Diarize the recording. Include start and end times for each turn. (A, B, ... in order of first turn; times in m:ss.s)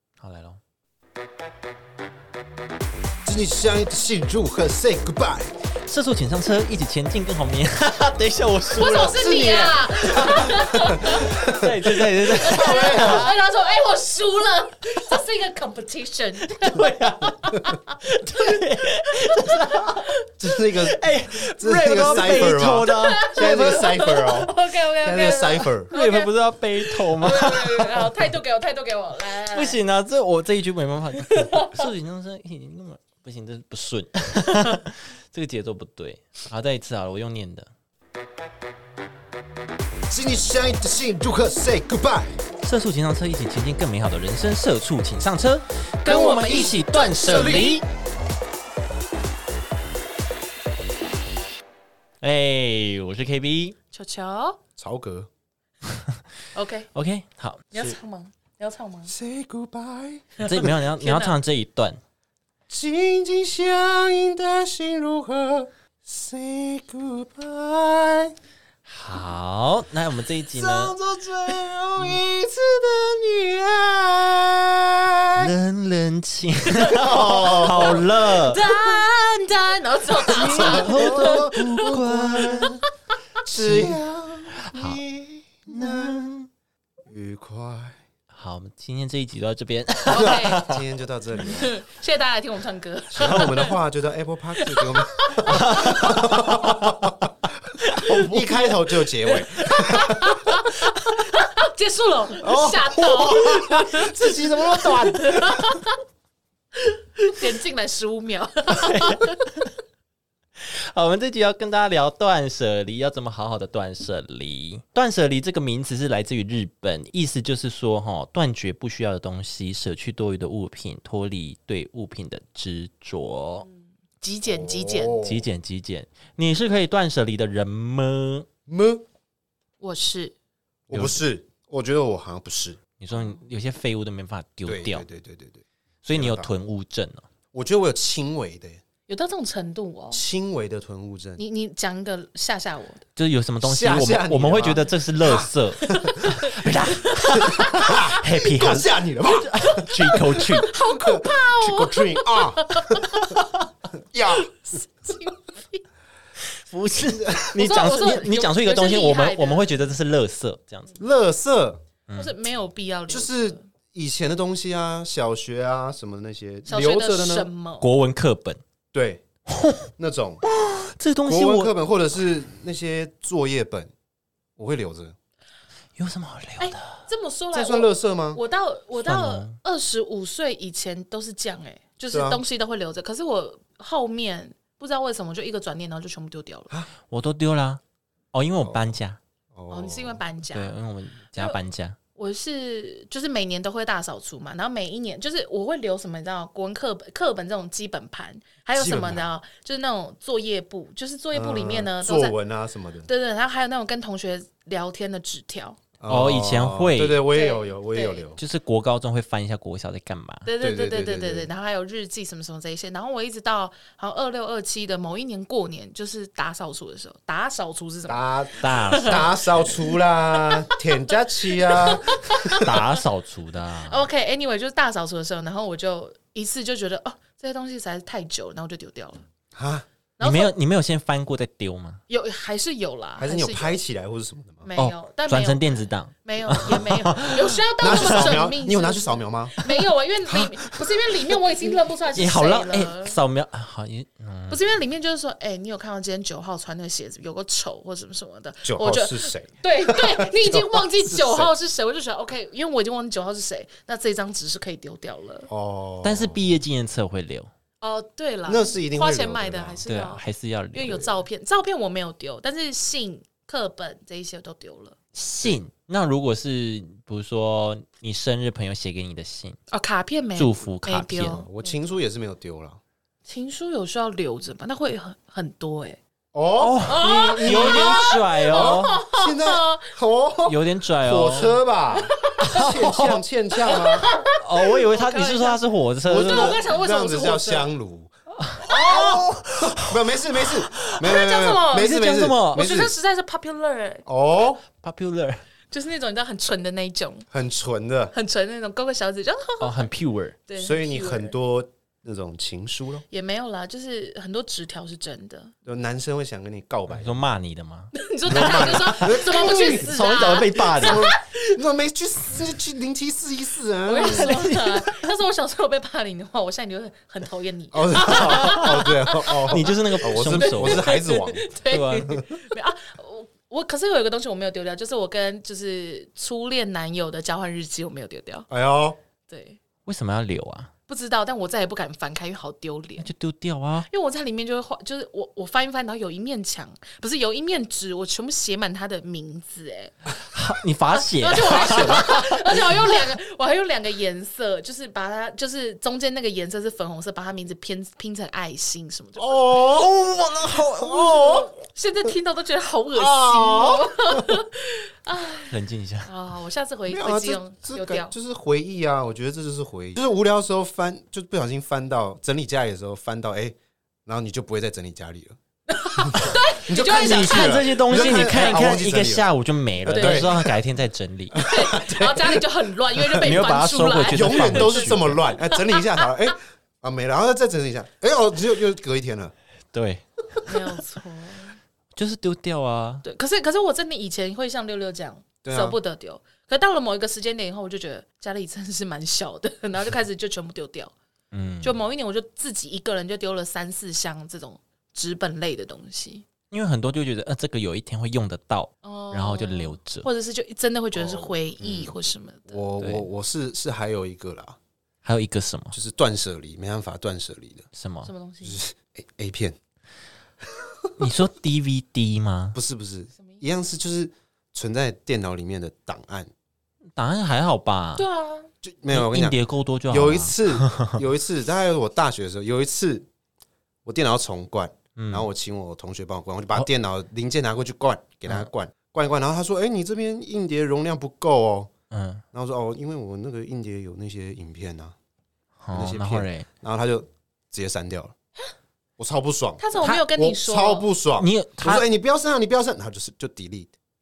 0:00.2-0:00.6 A
0:03.2-0:05.5 B
0:05.9-0:13.3 A
0:08.8-0:11.4 C
0:08.8-0:11.7 B
0:12.3-0:17.9 C
0:12.4-0:13.3 B
0:16.4-0:20.1 A
0:19.3-0:20.1 C
0:20.4-0:25.9 B
0:20.7-0:23.8 A
0:22.9-0:29.8 C
0:25.9-0:28.1 A
0:29.5-0:37.7 A
0:31.2-0:31.9 C
0:40.1-0:42.4 B
0:42.6-0:47.8 A
0:46.0-0:47.8 B
0:46.0-0:47.8 C
0:52.2-0:53.8 A
0:53.9-0:54.6 C
0:54.8-0:55.3 B
0:55.9-0:56.2 A
0:56.5-0:56.9 C
0:56.9-0:57.9 A
0:57.7-0:59.1 C
0:59.1-1:00.6 B
1:00.4-1:01.4 C
1:00.4-1:02.0 A
1:02.7-1:08.3 B
1:08.8-1:11.0 A
1:10.5-1:15.5 B
1:15.3-1:18.6 A
1:16.9-1:18.1 B
1:17.4-1:22.7 C
1:20.2-1:22.8 A
1:20.2-1:22.8 B
1:23.4-1:26.2 B
1:23.5-1:24.0 A
1:24.6-1:25.0 A
1:25.7-1:26.5 A
1:27.0-1:28.0 B
1:28.3-1:30.8 A
1:30.0-1:30.7 C
1:30.1-1:31.7 B
1:31.4-1:33.8 C
1:33.1-1:40.5 B
1:34.6-1:36.0 C
1:35.5-1:37.0 A
1:37.8-1:38.4 A
1:39.1-1:46.0 C
1:42.4-1:45.8 B
1:46.7-1:49.4 C
1:48.7-1:49.7 A
1:50.6-2:03.6 A
2:04.2-2:05.2 C
2:04.4-2:05.4 B
2:05.2-2:08.5 A
2:08.7-2:09.0 B
2:09.8-2:10.3 C
2:10.9-2:12.8 B
2:10.9-2:11.2 A
2:13.0-2:15.0 A
2:14.7-2:16.5 B
2:16.0-2:17.3 A
2:17.5-2:18.8 B
2:19.1-2:20.2 C
2:20.1-2:21.4 B
2:21.4-2:23.0 C
2:23.2-2:30.7 A
2:23.6-2:26.2 B
2:25.8-2:26.6 C
2:27.2-2:28.0 C
2:27.4-2:30.2 B
2:29.4-2:33.3 C
2:30.9-2:33.4 B
2:33.9-2:34.5 B
2:34.3-2:35.8 C
2:36.4-2:41.0 A
2:37.1-2:37.6 B
2:37.5-2:39.7 C
2:41.0-2:41.8 B
2:42.2-2:43.6 C
2:43.1-2:47.5 B
2:46.7-2:47.9 C
2:47.8-2:48.6 A
2:48.9-2:49.2 B
2:49.5-2:49.9 A
2:50.0-2:50.4 B
2:50.4-2:51.8 A
2:51.3-2:53.9 B
2:54.6-2:55.2 B
2:56.0-2:57.0 A
2:56.6-3:06.7 C
2:57.5-2:58.4 B
2:59.0-2:59.6 A
3:02.1-3:02.4 B
3:07.1-3:07.8 A
3:08.3-3:09.2 A
3:08.6-3:08.9 B
3:09.5-3:10.2 B
3:09.7-3:10.7 C
3:10.5-3:12.0 A
3:11.3-3:11.6 C
3:12.2-3:22.4 C
3:18.8-3:19.3 B
3:21.3-3:23.1 B
3:23.0-3:25.8 C
3:26.0-3:28.4 B
3:26.0-3:27.2 A
3:27.3-3:28.3 C
3:28.4-3:30.5 A
3:30.4-3:40.9 C
3:30.6-3:31.5 B
3:38.1-3:42.7 B
3:38.6-3:39.5 A
3:41.5-3:42.7 C
3:42.5-3:44.0 A
3:43.8-3:49.2 C
3:49.5-3:49.8 B
3:50.2-3:50.5 C
3:50.2-3:52.0 A
3:52.1-3:53.8 C
3:53.2-3:54.7 B
3:54.6-3:55.6 C
3:54.8-3:58.4 A
3:56.2-4:03.2 C
3:57.8-4:01.4 B
4:02.1-4:04.6 A
4:04.5-4:15.5 C
4:08.6-4:11.5 B
4:15.5-4:16.5 B
4:16.0-4:17.5 A
4:17.8-4:20.2 C
4:18.4-4:19.8 B
4:19.8-4:21.1 A
4:20.7-4:25.0 C
4:25.1-4:29.6 A
4:29.7-4:31.8 C
4:30.4-4:31.4 A
4:31.4-4:32.8 B
4:33.2-4:36.0 C
4:36.3-4:44.1 B
4:36.6-4:39.0 A
4:36.9-4:39.9 C
4:40.4-4:41.6 A
4:42.0-4:42.7 C
4:42.4-4:43.2 A
4:43.6-4:47.7 C
4:44.4-4:46.6 A
4:46.0-4:48.1 B
4:48.4-4:51.0 A
4:48.6-4:49.3 C
4:48.9-4:52.9 B
4:51.0-4:52.0 C
4:51.7-4:52.8 A
4:52.5-4:54.0 C
4:54.0-4:54.6 B
4:54.8-4:55.4 A
4:55.7-4:57.3 C
4:57.3-4:58.1 B
4:58.1-4:59.9 C
4:59.6-5:00.4 A
5:00.5-5:01.3 C
5:00.6-5:03.0 B
5:03.1-5:05.5 C
5:05.6-5:07.2 B
5:06.9-5:11.0 A
5:07.9-5:11.6 C
5:08.2-5:10.0 B
5:10.8-5:14.5 B
5:13.8-5:28.5 C
5:14.0-5:15.1 A
5:17.7-5:21.5 B
5:18.1-5:18.6 A
5:19.4-5:20.9 A
5:21.6-5:22.1 A
5:22.1-5:22.4 B
5:28.5-5:29.0 B
5:29.3-5:29.6 C
5:29.8-5:30.7 A
5:30.9-5:33.1 C
5:33.0-5:33.9 A
5:33.9-5:40.0 C
5:40.2-5:42.7 A
5:40.9-5:49.6 C
5:41.6-5:42.0 B
5:49.2-5:49.9 B
5:49.6-5:51.5 A
5:50.6-5:51.5 B
5:51.6-5:58.1 C
5:52.9-5:54.4 B
5:55.4-5:56.1 A
5:56.9-6:05.4 B
6:05.7-6:08.1 C
6:06.0-6:09.2 B
6:06.8-6:11.4 A
6:09.8-6:10.5 B
6:09.9-6:10.4 C
6:11.3-6:13.3 B
6:11.4-6:16.3 C
6:13.2-6:15.2 A
6:14.1-6:19.3 B
6:19.7-6:20.6 A
6:20.4-6:21.6 C
6:22.0-6:23.0 A
6:23.0-6:30.9 C
6:25.4-6:25.8 B
6:31.3-6:31.8 A
6:31.6-6:36.2 C
6:36.5-6:40.1 A
6:38.8-6:42.6 C
6:40.9-6:41.9 B
6:42.5-6:44.6 B
6:42.8-6:43.0 A
6:45.0-6:45.8 A
6:45.7-6:47.7 B
6:47.7-6:48.1 A
6:48.0-6:48.6 C
6:48.4-6:49.6 B
6:50.4-6:50.9 B
6:51.0-6:52.6 A
6:52.5-6:56.3 B
6:57.0-6:58.0 A
6:58.0-6:58.5 C
6:58.6-6:59.4 B
6:58.9-7:01.0 A
6:59.9-7:03.1 B
7:03.8-7:11.7 B
7:05.0-7:05.3 A
7:11.9-7:12.2 A
7:12.3-7:14.9 B
7:15.6-7:16.5 A
7:15.7-7:18.1 B
7:19.0-7:23.7 B
7:19.6-7:20.9 C
7:21.2-7:21.8 A